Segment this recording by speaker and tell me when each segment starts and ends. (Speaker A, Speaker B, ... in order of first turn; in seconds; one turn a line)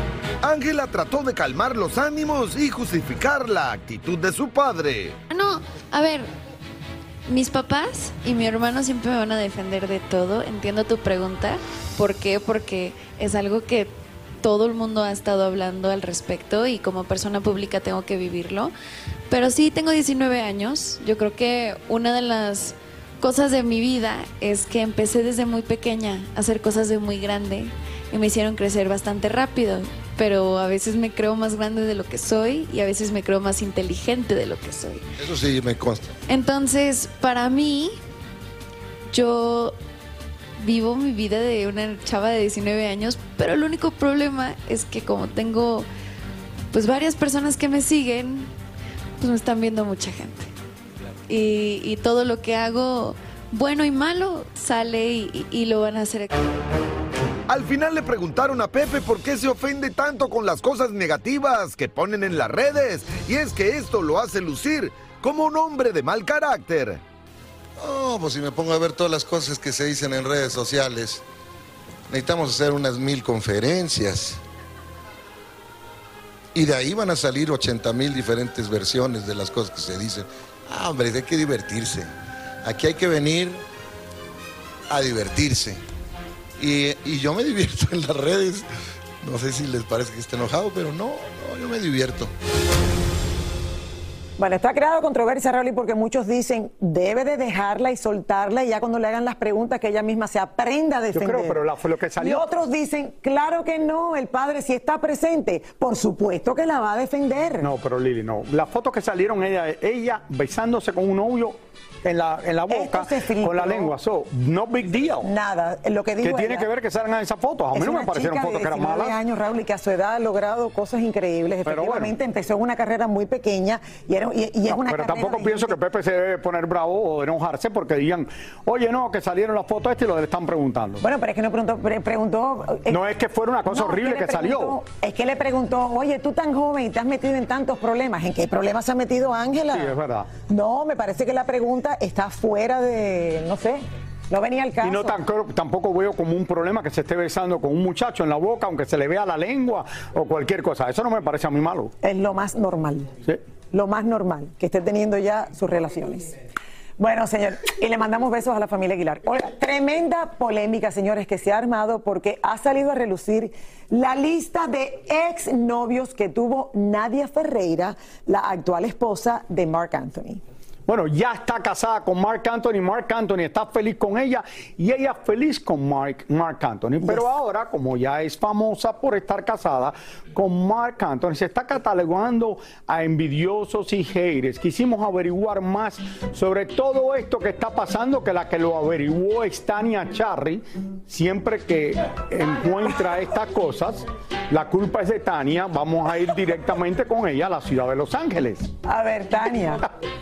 Speaker A: 0.4-5.2
Speaker B: 5.3-6.3
Speaker B: 7.3-18.7
Speaker B: 19.3-35.0
Speaker C: 35.2-36.1
Speaker B: 36.3-38.0
Speaker B: 39.1-39.7
Speaker B: 40.6-45.9
Speaker B: 46.7-48.5
Speaker B: 49.2-50.5
Speaker B: 51.3-56.4
Speaker A: 57.5-67.0
Speaker C: 67.8-71.2
Speaker C: 72.1-74.4
Speaker C: 76.5-82.1
Speaker C: 82.6-83.6
Speaker C: 84.9-85.8
Speaker C: 86.6-88.7
Speaker C: 89.2-92.3
Speaker D: 94.4-101.6
Speaker E: 101.1-102.5
Speaker D: 102.2-107.7
Speaker E: 107.6-115.3
Speaker D: 112.7-113.9
Speaker D: 115.2-116.7
Speaker E: 116.2-119.1
Speaker D: 117.7-125.8
Speaker E: 121.6-122.1
Speaker E: 124.7-131.0
Speaker D: 131.0-133.0
Speaker E: 132.9-134.8
Speaker D: 133.7-145.2
Speaker E: 139.7-140.3
Speaker E: 144.8-151.9
Speaker D: 152.0-153.2
Speaker D: 153.7-156.3
Speaker D: 157.0-170.4
Speaker E: 170.9-198.7
Speaker D: 177.0-177.3
Speaker D: 198.8-199.9